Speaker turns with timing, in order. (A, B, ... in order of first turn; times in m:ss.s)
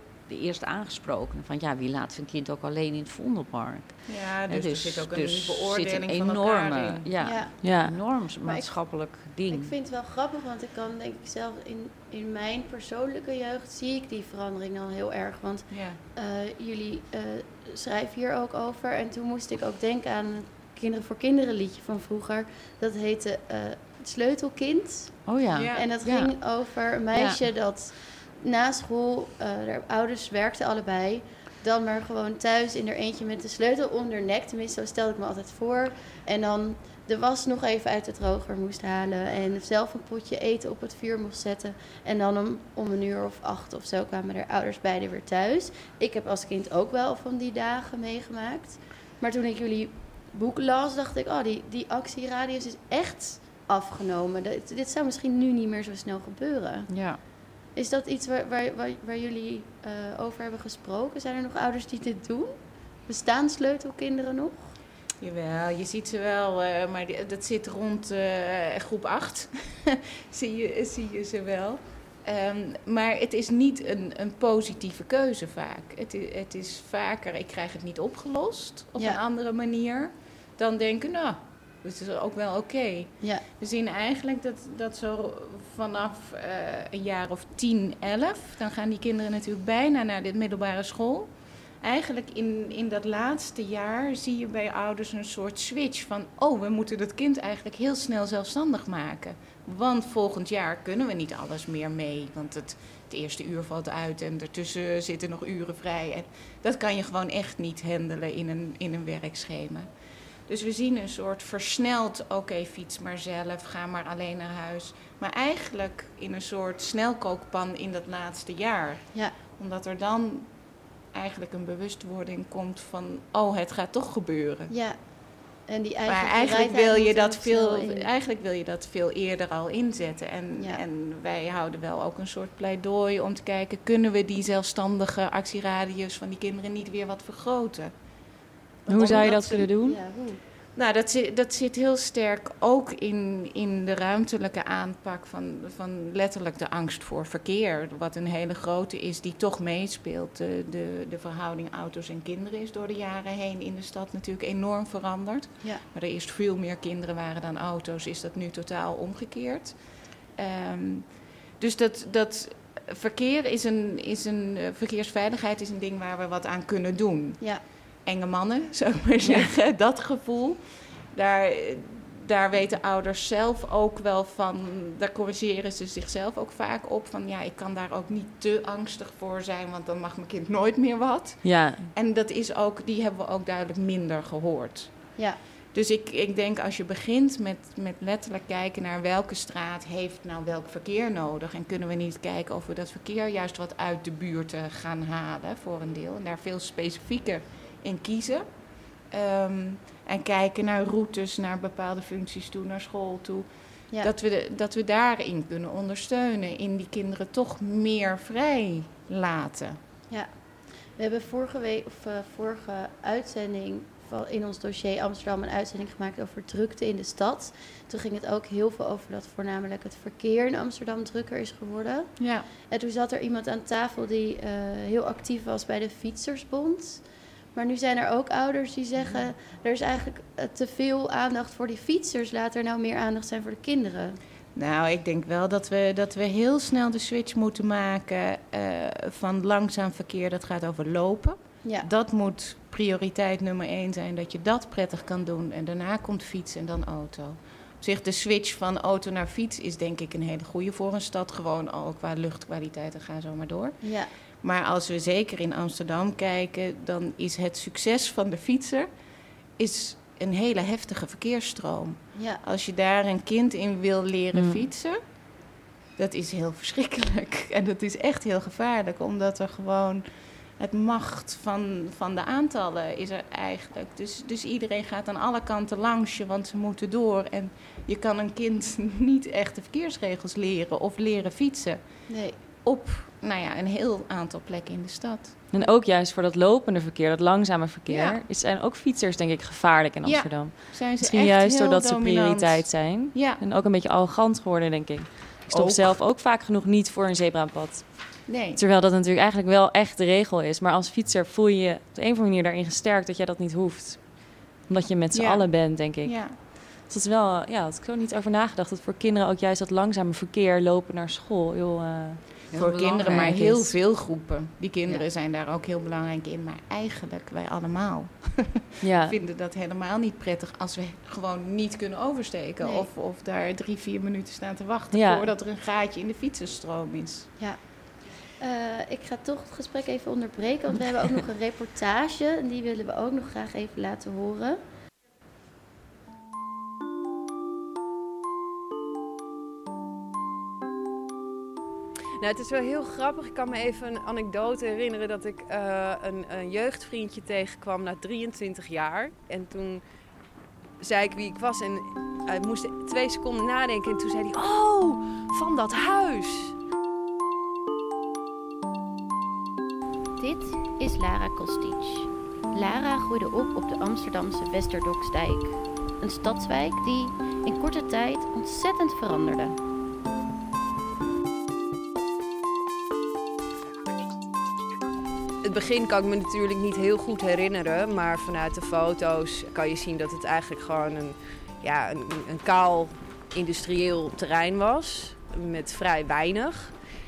0:00.3-0:09.7 A
0:04.0-0:07.1 B
0:07.2-0:07.5 C
0:07.6-0:08.0 D
0:08.4-0:08.7 C
0:09.5-0:56.9 C
0:15.7-0:16.0 B
0:25.2-0:26.3 A
0:25.5-0:25.9 B
0:27.1-0:27.4 A
0:56.9-0:57.2 A
0:57.7-1:04.7 C
1:05.2-1:49.9 B
1:50.4-2:00.5 B
2:01.1-2:04.7 B
2:04.7-2:05.0 C
2:05.6-2:08.1 C
2:06.0-2:17.9 B
2:10.6-2:10.8 C
2:18.8-2:19.7 B
2:18.9-2:20.0 D
2:19.0-2:20.4 C
2:20.7-2:39.8 B
2:40.4-2:47.5 B
2:48.0-3:05.2 B
3:01.4-3:01.9 D
3:05.7-3:18.5 B
3:19.1-3:23.5 B
3:24.0-3:29.8 B
3:31.0-3:47.0 C
3:42.2-3:42.5 B
3:47.5-3:54.2 C
3:54.5-4:13.8 B
4:13.8-4:14.1 C
4:14.4-4:18.9 B
4:19.6-4:25.0 B
4:22.1-4:22.4 C
4:24.3-4:24.6 D
4:26.0-4:30.0 B
4:30.6-4:41.9 B
4:42.1-4:42.4 C
4:42.6-4:45.7 B
4:45.5-5:13.7 D
4:47.9-4:48.2 B
4:50.0-4:53.4 B
4:55.5-4:56.0 B
4:58.3-4:58.6 B
5:05.1-5:06.4 B
5:12.5-5:13.4 A
5:12.5-5:27.3 B
5:18.8-5:19.2 D
5:22.6-5:22.9 C
5:24.9-5:25.3 D
5:27.4-5:27.7 C
5:28.4-5:34.6 C
5:42.2-5:49.8 E
5:50.8-5:56.5 E
6:00.2-6:09.6 C
6:15.4-6:26.7 E